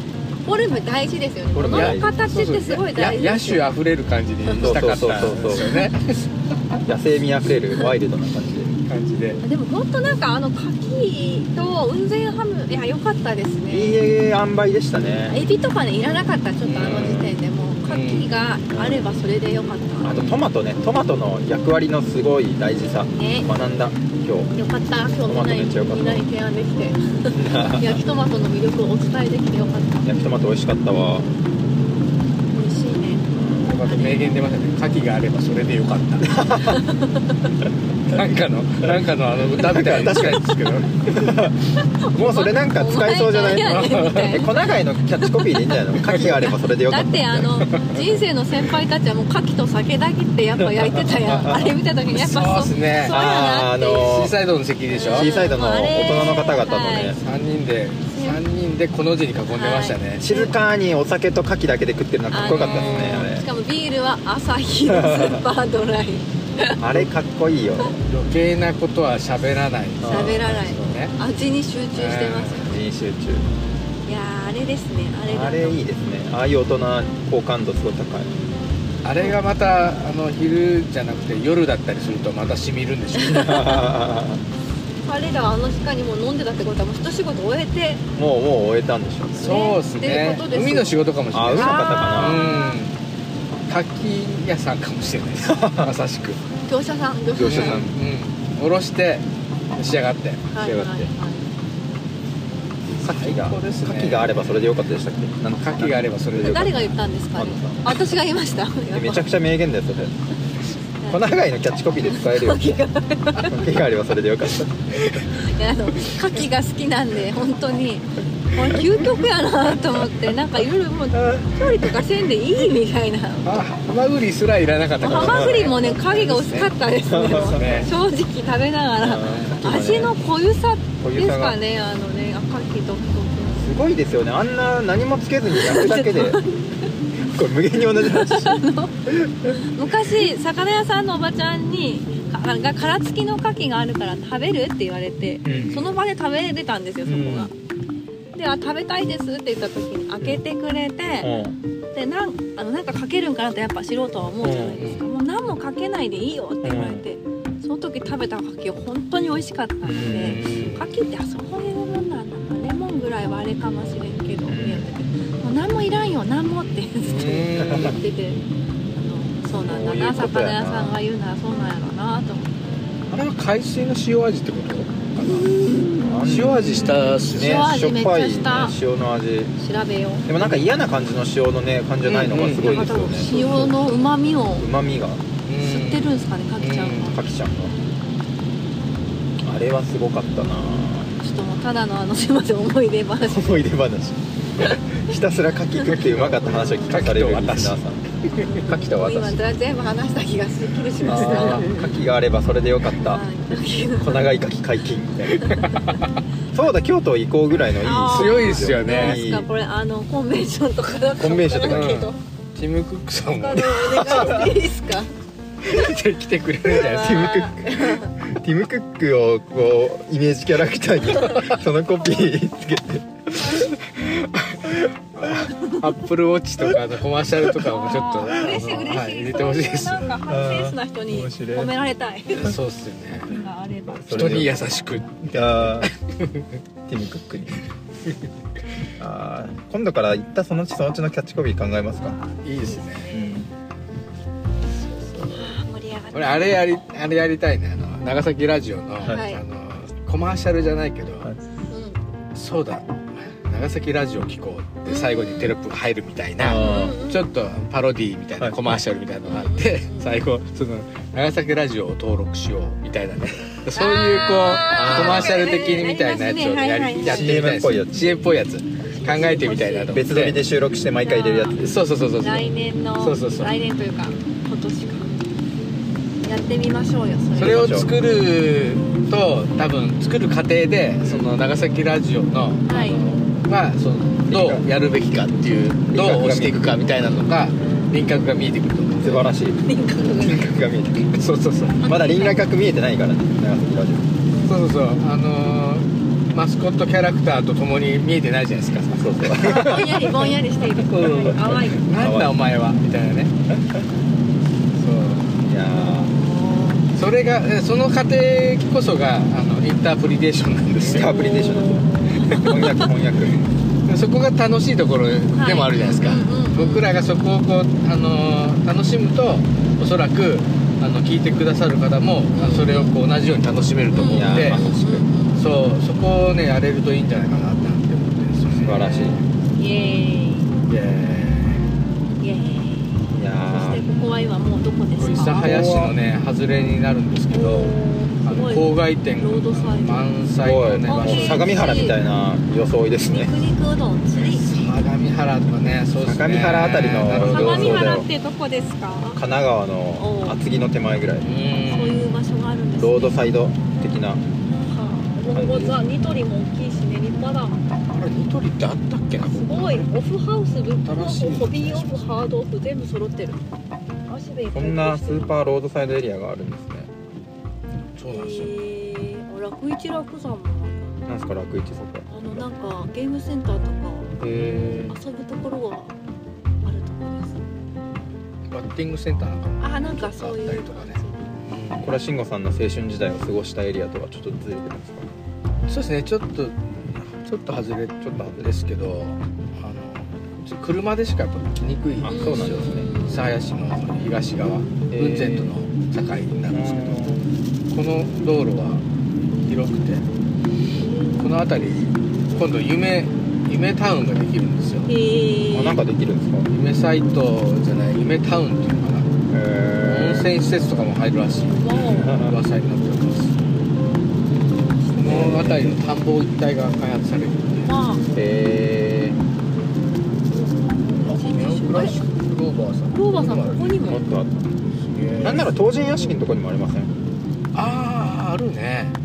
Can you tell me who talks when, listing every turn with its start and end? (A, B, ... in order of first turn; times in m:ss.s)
0:00.5-0:03.7 A
0:01.6-0:02.1 B
0:01.6-0:06.3 C
0:04.5-0:04.8 A
0:04.6-0:05.8 B
0:05.6-0:05.9 A
0:06.9-0:08.8 B
0:08.9-0:09.4 C
0:09.4-0:14.0 A
0:13.7-0:15.4 B
0:15.3-0:20.2 A
0:16.7-0:17.2 C
0:16.7-0:17.4 B
0:17.9-0:18.3 C
0:18.7-0:19.1 B
0:20.0-0:24.5 B
0:20.1-0:20.5 C
0:23.1-0:23.5 A
0:24.6-0:30.2 A
0:25.3-0:26.3 B
0:27.3-0:28.0 B
0:30.0-0:31.3 B
0:32.5-0:33.3 A
0:33.3-0:33.7 B
0:33.6-0:36.4 C
0:33.8-0:34.4 A
0:36.2-0:36.9 B
0:36.6-0:37.4 A
0:38.1-0:41.4 C
0:39.5-0:40.4 B
0:41.1-0:41.6 B
0:41.8-0:44.5 A
0:42.1-0:47.7 B
0:43.6-0:44.5 C
0:45.2-0:54.2 A
0:47.7-0:48.1 C
0:51.3-0:51.8 B
0:52.1-0:53.2 C
0:53.1-0:54.4 B
0:53.9-0:55.3 C
0:54.9-0:57.2 A
0:55.1-0:57.2 B
0:57.1-1:00.3 C
0:58.1-0:58.4 A
0:59.5-1:00.5 A
1:00.2-1:03.5 B
1:02.3-1:06.8 A
1:02.5-1:03.3 C
1:04.9-1:05.4 B
1:06.8-1:08.0 B
1:08.0-1:11.2 C
1:10.0-1:10.6 B
1:10.1-1:12.7 A
1:12.0-1:12.7 C
1:12.6-1:13.5 B
1:14.1-1:15.8 A
1:15.3-1:18.3 B
1:18.2-1:18.7 A
1:19.0-1:23.8 C
1:23.2-1:24.4 B
1:23.4-1:23.8 A
1:25.1-1:28.0 A
1:28.2-1:29.6 B
1:29.4-1:33.0 C
1:29.4-1:31.0 A
1:31.3-1:32.5 B
1:31.5-1:32.8 A
1:33.7-1:36.4 C
1:35.4-1:35.9 B
1:36.6-1:37.9 A
1:37.4-1:37.9 B
1:37.4-1:40.9 C
1:40.5-1:41.5 A
1:40.6-1:40.9 B
1:43.0-1:44.5 C
1:43.0-1:46.8 B
1:45.6-1:46.9 C
1:46.4-1:49.3 A
1:47.4-1:48.0 B
1:48.9-1:50.1 B
1:51.0-1:51.3 A
1:51.1-1:52.8 B
1:52.0-1:53.5 A
1:53.4-1:54.9 B
1:55.3-2:03.6 A
2:03.4-2:07.9 C
2:05.0-2:13.7 A
2:05.0-2:05.7 B
2:07.1-2:07.9 B
2:09.0-2:10.2 B
2:11.0-2:11.6 B
2:13.6-2:16.4 B
2:15.5-2:16.6 A
2:17.3-2:19.6 B
2:18.0-2:19.0 A
2:19.5-2:27.5 A
2:25.4-2:25.9 B
2:27.1-2:27.5 B
2:28.3-2:31.3 A
2:31.2-2:31.6 B
2:31.9-2:48.4 A
2:34.4-2:34.8 B
2:34.8-2:35.0 C
2:36.6-2:37.0 B
2:39.8-2:40.5 B
2:40.0-2:40.9 C
2:44.5-2:44.9 B
2:47.0-2:48.0 C
2:47.6-2:48.0 B
2:49.0-2:52.5 A
2:49.6-2:51.0 B
2:53.1-2:55.5 C
2:55.2-2:56.2 A
2:56.0-2:59.5 B
2:56.2-2:57.7 C
2:56.8-2:58.8 A
2:59.6-3:00.3 A
3:00.3-3:03.3 B
3:00.4-3:00.7 C
3:02.1-3:04.0 C
3:02.6-3:04.7 A
3:04.6-3:05.2 B
3:05.5-3:07.2 C
3:05.6-3:07.2 A
3:07.1-3:07.7 B
3:09.4-3:11.1 B
3:11.2-3:13.7 A
3:13.2-3:19.4 B
3:16.0-3:18.6 C
3:18.4-3:21.7 A
3:21.0-3:23.2 B
3:21.1-3:21.9 C
3:23.0-3:24.3 A
3:24.0-3:25.5 B
3:25.3-3:26.1 C
3:25.4-3:25.8 A
3:26.5-3:29.5 B
3:27.8-3:32.2 A
3:28.1-3:29.2 C
3:31.2-3:32.0 B
3:31.7-3:34.4 C
3:33.4-3:35.1 A
3:33.6-3:34.5 B
3:35.6-3:37.4 C
3:36.7-3:38.1 A
3:36.9-3:43.7 B
3:41.2-3:41.4 A
3:43.8-3:50.2 C
3:47.6-3:52.6 A
3:50.3-3:51.7 B
3:52.4-3:53.3 C
3:53.3-3:54.4 A
3:54.1-3:54.6 B
3:54.1-3:56.4 C
3:55.3-3:55.9 B
3:56.9-3:57.6 B
3:59.0-4:02.2 B
4:02.1-4:03.4 A
4:02.4-4:03.1 C
4:03.1-4:03.5 B
4:04.9-4:06.8 A
4:06.1-4:11.3 C
4:09.1-4:09.4 A
4:11.7-4:12.0 A
4:12.3-4:30.4 C
4:14.9-4:15.5 A
4:16.4-4:17.0 B
4:16.6-4:17.3 A
4:19.3-4:20.1 A
4:23.8-4:27.4 A
4:24.9-4:25.4 B
4:27.0-4:28.2 B
4:28.9-4:30.0 A
4:29.9-4:31.8 B
4:31.0-4:31.6 A
4:31.6-4:33.5 C
4:32.2-4:35.2 A
4:36.2-4:37.7 A
4:37.4-4:37.9 B
4:37.4-4:49.3 C
4:41.0-4:41.3 B
4:42.7-4:43.1 A
4:44.3-4:44.7 B
4:45.9-4:47.0 B
4:49.0-4:49.6 B
4:49.7-4:50.5 A
4:50.1-4:51.2 B
4:51.1-4:51.8 C
4:51.8-4:52.5 A
4:51.8-4:54.1 B
4:54.5-5:00.3 C
4:58.9-4:59.9 B
4:59.3-5:01.8 A
5:00.8-5:03.4 C
5:01.0-5:02.4 B
5:04.8-5:05.5 C
5:05.4-5:06.2 B
5:05.7-5:06.9 A
5:06.9-5:11.2 C
5:10.8-5:13.4 B
5:10.9-5:12.8 A
5:12.2-5:12.7 C
5:13.9-5:24.6 C
5:15.3-5:16.9 A
5:22.3-5:23.0 A
5:23.9-5:25.4 A
5:24.0-5:25.0 B
5:25.4-5:29.3 C
5:28.6-5:29.2 B
5:29.6-5:30.5 A
5:30.7-5:31.7 C
5:32.2-5:35.5 A
5:33.1-5:33.8 B
5:35.0-5:41.8 C
5:35.4-5:36.0 B
5:37.3-5:40.1 A
5:40.4-5:43.4 B
5:40.9-5:42.0 A
5:43.0-5:44.4 A
5:44.2-5:47.9 C
5:46.0-5:48.1 B
5:47.2-5:49.2 A
5:49.2-5:51.3 B
5:50.0-5:50.4 A
5:51.2-5:52.2 C
5:51.7-5:53.3 A
5:52.8-5:54.2 B
5:54.7-5:57.6 A
5:55.3-5:55.9 B
5:57.9-5:59.9 C
5:59.2-6:03.4 A
6:00.8-6:02.2 C
6:04.1-6:05.4 A
6:04.5-6:06.9 B
6:08.0-6:08.6 C
6:08.1-6:10.8 A
6:11.1-6:12.5 B
6:12.1-6:14.2 A
6:14.2-6:15.0 B
6:14.3-6:14.9 C
6:14.9-6:16.0 A
6:16.6-6:17.4 A
6:18.5-6:22.0 C
6:19.6-6:21.3 A
6:21.8-6:25.1 B
6:25.7-6:38.8 C
6:28.0-6:28.5 B
6:32.0-6:32.9 B
6:32.1-6:33.3 A
6:34.9-6:35.6 B
6:36.5-6:37.2 B
6:39.4-6:40.1 C
6:41.2-6:44.9 C
6:44.9-6:45.8 A
6:45.5-6:46.5 B
6:46.5-6:49.1 C
6:49.3-6:50.3 B
6:49.8-6:53.4 C
6:51.5-6:52.2 A
6:51.7-6:52.4 B
6:54.8-6:55.2 A
6:55.0-6:57.8 C
6:55.0-6:55.8 B
6:57.7-6:58.1 A
6:58.2-6:59.2 B
7:01.0-7:02.0 A
7:01.0-7:03.9 C
7:02.9-7:04.0 A
7:03.8-7:04.5 B
7:04.8-7:05.6 C
7:05.2-7:06.9 B
7:07.5-7:09.0 C